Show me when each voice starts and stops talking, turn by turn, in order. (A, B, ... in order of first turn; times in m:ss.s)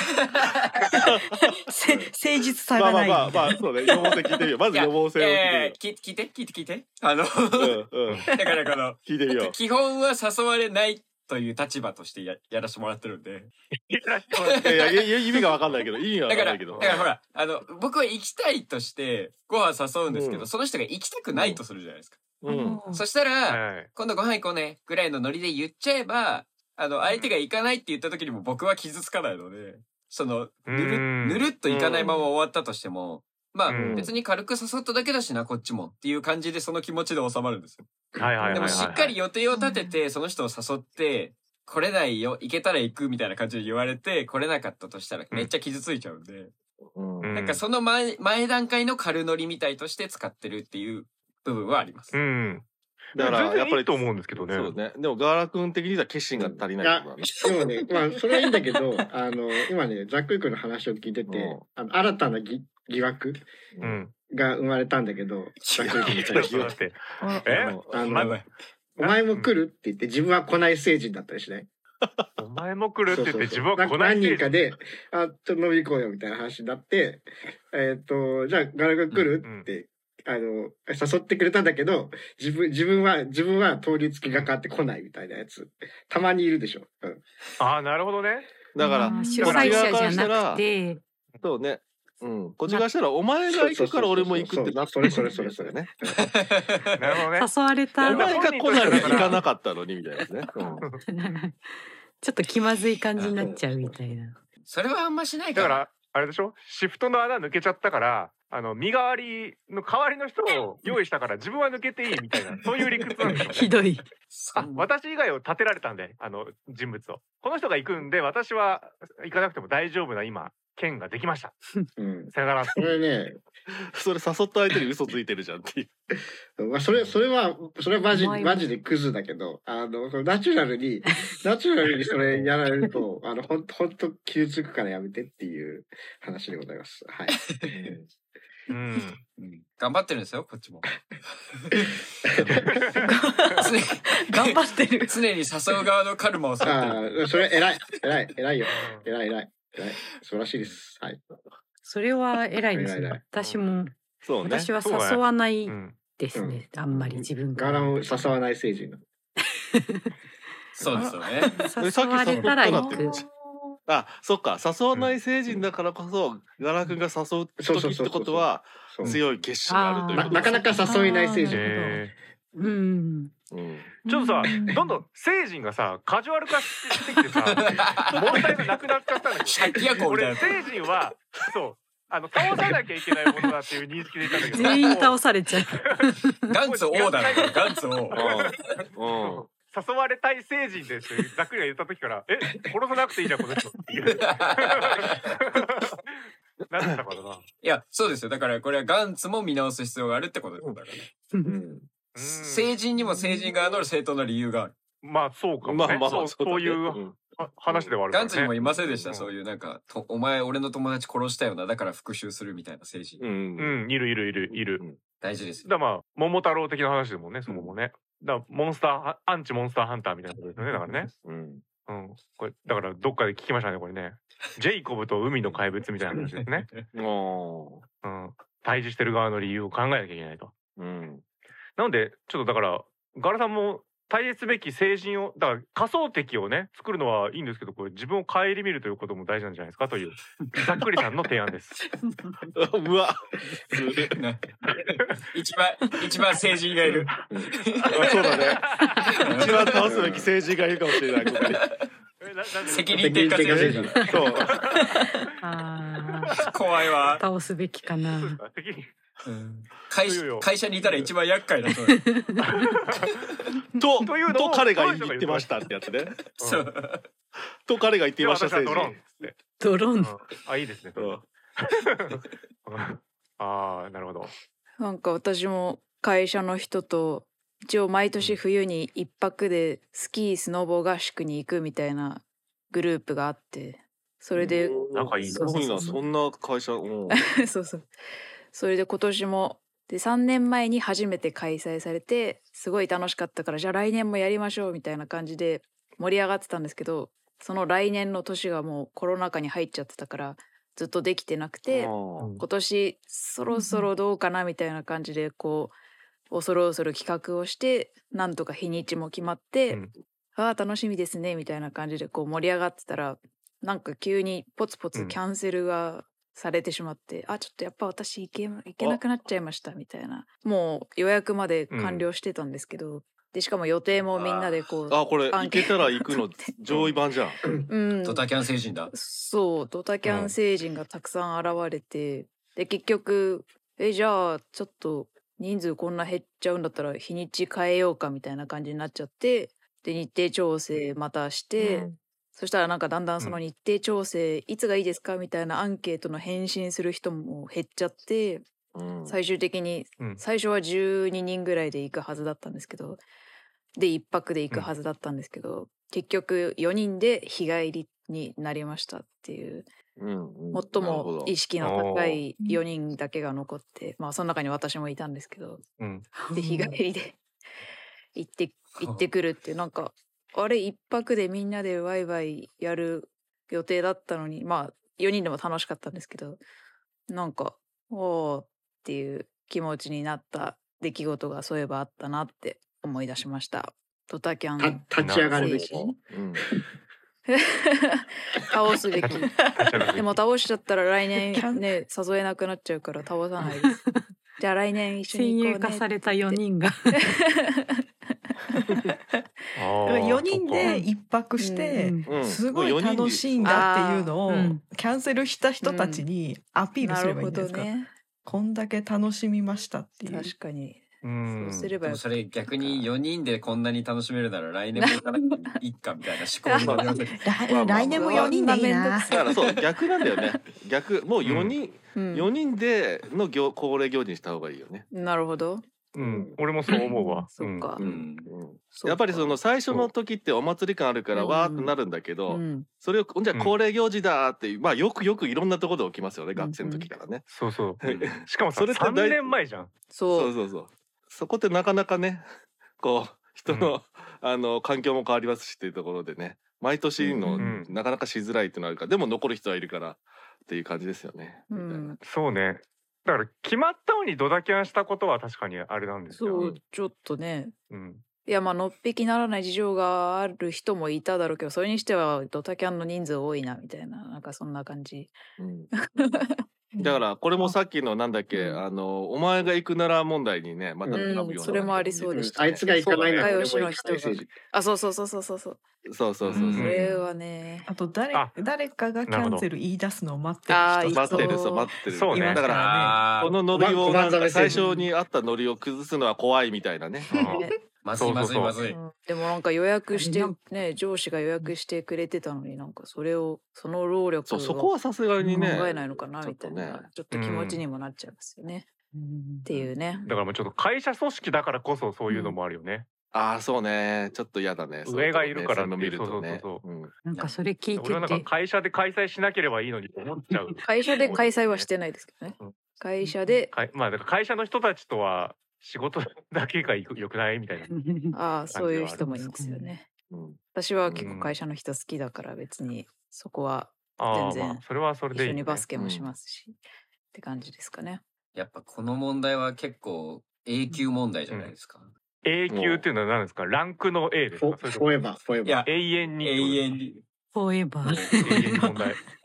0:00.4-0:00.8 A
0:00.9-0:01.4 B
0:01.0-0:03.6 C
0:02.7-0:05.7 B
0:04.7-0:07.8 A
0:07.6-0:08.3 B
0:08.3-0:13.5 A
0:09.0-0:09.5 B
0:13.8-0:14.3 D
0:14.4-0:17.1 B
0:14.4-0:15.1 A
0:16.3-0:22.2 A
0:20.1-0:20.5 B
0:21.3-0:21.6 B
0:22.4-0:22.8 B
0:22.4-0:23.0 C
0:22.9-0:37.9 A
0:23.5-0:23.9 D
0:30.7-0:31.4 D
0:31.6-0:32.2 B
0:33.6-0:34.0 D
0:33.7-0:34.2 B
0:38.2-0:39.2 D
0:38.4-0:38.9 B
0:38.5-0:46.5 A
0:39.5-0:39.9 C
0:46.9-0:47.4 B
0:47.2-0:47.6 D
0:47.3-0:52.2 A
0:52.1-0:54.7 D
0:53.1-0:57.4 B
0:56.3-1:03.5 E
1:01.3-1:01.6 B
1:03.8-1:04.0 B
1:03.8-1:04.1 D
1:04.3-1:06.5 E
1:05.6-1:06.3 A
1:05.9-1:06.7 B
1:06.3-1:08.3 D
1:07.2-1:07.6 C
1:07.5-1:07.8 B
1:07.9-1:08.3 E
1:07.9-1:08.5 A
1:09.0-1:11.7 E
1:09.0-1:09.5 D
1:12.4-1:14.5 D
1:13.1-1:27.2 E
1:19.4-1:19.7 D
1:27.6-1:28.5 D
1:28.7-1:30.6 B
1:28.8-1:31.0 F
1:28.8-1:29.4 C
1:29.4-1:30.0 D
1:31.4-1:35.9 B
1:33.5-1:36.2 E
1:36.2-1:37.0 A
1:37.0-1:37.5 D
1:37.3-1:39.4 F
1:38.0-1:40.9 B
1:38.0-1:39.4 D
1:40.9-1:44.4 F
1:43.4-1:44.0 E
1:44.6-1:45.8 A
1:45.5-1:53.7 D
1:53.4-1:54.0 F
1:54.3-1:54.9 A
1:54.5-2:01.5 D
2:02.0-2:03.4 E
2:02.3-2:03.0 D
2:03.9-2:05.9 B
2:06.6-2:18.0 E
2:08.1-2:08.7 F
2:17.7-2:18.0 B
2:18.7-2:19.2 D
2:19.4-2:21.0 A
2:21.6-2:22.7 A
2:22.8-2:23.1 D
2:23.0-2:25.2 C
2:23.6-2:27.2 A
2:26.6-2:31.2 E
2:28.8-2:29.0 D
2:31.8-2:38.0 F
2:32.7-2:33.2 E
2:33.4-2:33.6 D
2:34.2-2:34.7 B
2:34.8-2:36.0 D
2:36.3-2:36.7 E
2:36.9-2:37.2 B
2:37.5-2:39.0 E
2:39.7-2:40.1 F
2:40.8-2:41.5 A
2:40.9-2:41.7 C
2:41.5-2:43.2 F
2:41.8-2:43.1 B
2:42.4-2:43.8 C
2:43.9-2:50.6 B
2:47.6-2:49.2 E
2:49.6-2:51.2 F
2:50.1-2:52.0 E
2:50.7-2:52.0 C
2:51.5-2:52.1 D
2:52.6-2:53.3 F
2:53.5-2:54.0 B
2:54.0-2:55.0 C
2:54.0-3:05.2 D
2:57.4-2:58.6 A
2:59.4-3:00.7 A
3:04.5-3:06.6 F
3:06.5-3:08.2 A
3:06.6-3:07.6 D
3:08.1-3:17.4 D
3:08.1-3:09.5 B
3:14.2-3:15.2 A
3:17.6-3:21.1 A
3:21.4-3:21.8 B
3:22.1-3:22.7 D
3:22.2-3:24.7 A
3:25.0-3:28.5 D
3:25.6-3:27.9 B
3:28.1-3:33.2 A
3:28.6-3:29.1 B
3:33.2-3:33.8 B
3:33.6-3:34.8 D
3:34.5-3:35.0 B
3:35.2-3:35.7 A
3:35.6-3:41.1 D
3:37.5-3:37.7 B
3:40.6-3:41.6 B
3:41.9-3:46.7 D
3:46.1-3:46.8 A
3:46.9-3:47.8 B
3:48.0-3:50.5 D
3:50.8-3:51.2 B
3:51.8-4:01.8 D
4:02.5-4:04.2 B
4:04.1-4:08.2 A
4:07.9-4:08.7 B
4:07.9-4:09.1 D
4:09.2-4:09.9 A
4:09.3-4:11.6 B
4:09.8-4:10.3 E
4:11.2-4:11.8 A
4:12.2-4:13.3 D
4:12.7-4:14.0 A
4:13.0-4:14.0 E
4:13.4-4:14.5 B
4:14.4-4:15.1 D
4:15.4-4:16.4 F
4:16.4-4:17.2 A
4:17.1-4:18.4 F
4:18.1-4:18.9 D
4:19.2-4:22.0 A
4:20.0-4:20.5 D
4:20.8-4:21.1 B
4:21.9-4:22.4 F
4:22.4-4:23.3 D
4:23.8-4:26.2 B
4:24.0-4:25.6 D
4:26.4-4:27.1 A
4:26.4-4:26.7 D
4:27.6-4:29.1 B
4:28.2-4:29.3 D
4:29.6-4:30.1 F
4:30.0-4:34.3 D
4:31.0-4:31.2 B
4:34.8-4:44.9 G
4:44.4-4:47.2 B
4:44.9-4:45.6 D
4:45.4-4:46.0 F
4:45.4-4:46.0 G
4:47.1-4:47.9 G
4:48.5-5:05.8 G
5:01.7-5:02.3 B
5:02.2-5:02.4 D
5:03.5-5:03.9 C
5:06.3-5:09.8 G
5:10.3-5:26.9 G
5:21.7-5:22.1 D
5:24.1-5:27.4 B
5:27.7-5:28.2 G
5:28.0-5:28.9 A
5:28.9-5:48.5 G
5:30.0-5:30.3 D
5:41.6-5:42.0 B
5:48.7-5:49.2 B
5:49.0-5:53.0 G
5:53.8-5:59.7 G
6:00.0-6:01.3 B
6:00.5-6:05.6 G
6:01.6-6:02.2 D
6:05.8-6:06.0 D
6:06.1-6:06.7 F
6:06.3-6:07.2 G
6:08.1-6:16.4 G
6:08.8-6:09.1 A
6:17.1-6:26.0 G
6:24.6-6:26.0 E
6:25.0-6:25.5 D
6:25.4-6:26.4 B
6:27.3-6:29.4 G
6:29.0-6:30.2 D
6:29.9-6:33.8 G
6:31.2-6:31.7 C
6:33.5-6:34.0 F
6:34.4-6:36.4 G
6:35.1-6:37.0 F
6:37.0-6:38.3 G
6:38.6-6:38.9 C
6:39.5-6:40.7 D
6:39.8-6:47.7 C
6:41.4-6:41.8 G
6:41.7-6:42.1 F
6:42.0-6:43.6 B
6:43.4-6:44.2 G
6:44.2-6:44.6 F
6:45.6-6:46.0 G
6:46.8-6:47.9 G
6:48.2-6:50.3 C
6:50.1-6:52.8 G
6:51.0-6:51.7 D
6:51.8-6:57.3 A
6:54.8-6:55.2 G
6:56.4-7:00.4 G
6:56.6-6:58.4 B
6:57.2-6:59.3 C
6:59.1-7:04.8 B
7:01.2-7:01.6 D
7:01.9-7:02.3 G
7:04.9-7:05.6 G
7:05.9-7:07.7 D
7:06.0-7:06.4 E
7:06.7-7:07.8 G
7:07.8-7:17.2 B
7:07.8-7:08.3 A
7:08.7-7:09.4 G
7:11.1-7:11.8 G
7:12.3-7:12.7 G
7:16.3-7:16.9 G
7:17.3-7:19.7 D
7:17.8-7:19.3 B
7:19.9-7:20.3 G
7:20.1-7:22.2 B
7:22.8-7:31.9 B
7:23.5-7:23.8 D
7:27.4-7:27.7 D
7:31.5-7:32.0 G
7:32.0-7:36.5 D
7:36.1-7:37.5 G
7:37.7-7:38.0 D
7:38.2-7:45.2 G
7:45.4-7:45.7 B
7:45.7-7:46.4 G
7:46.7-7:47.5 C
7:46.8-7:53.4 B
7:48.3-7:48.6 G
7:50.9-7:55.6 G
7:52.1-7:54.3 E
7:55.8-7:56.8 B
7:56.3-7:57.7 G
7:56.3-7:57.0 C
7:56.5-7:56.8 D
7:57.6-8:03.1 C
7:59.0-7:59.4 D
8:00.5-8:01.7 G
8:00.9-8:07.2 B
8:01.9-8:02.4 D
8:02.4-8:03.3 A
8:03.5-8:04.6 E
8:07.1-8:08.6 D
8:07.8-8:08.8 A
8:09.0-8:18.7 G
8:09.9-8:10.4 F
8:14.2-8:16.9 B
8:15.2-8:15.6 F
8:17.1-8:17.6 D
8:18.9-8:19.5 F
8:19.4-8:20.1 G
8:20.0-8:22.8 D
8:22.1-8:22.4 F
8:23.1-8:26.9 B
8:24.8-8:26.6 D
8:27.0-8:28.3 F
8:27.8-8:31.7 D
8:30.6-8:33.5 G
8:33.5-8:37.7 D
8:37.7-8:38.2 F
8:38.1-8:39.9 G
8:38.5-8:39.0 D
8:39.0-8:39.7 F
8:40.1-8:41.1 B
8:40.5-8:46.6 G
8:41.0-8:41.4 D
8:44.0-8:45.6 D
8:45.7-8:46.1 B
8:47.1-8:48.0 G
8:48.3-8:51.9 A
8:52.2-8:54.9 D
8:52.5-8:52.8 B
8:54.4-8:55.6 E
8:55.4-8:55.7 A
8:55.6-8:56.6 D
8:56.2-8:57.0 A
8:57.3-8:58.8 F
8:57.8-8:58.4 A
8:58.2-8:59.0 D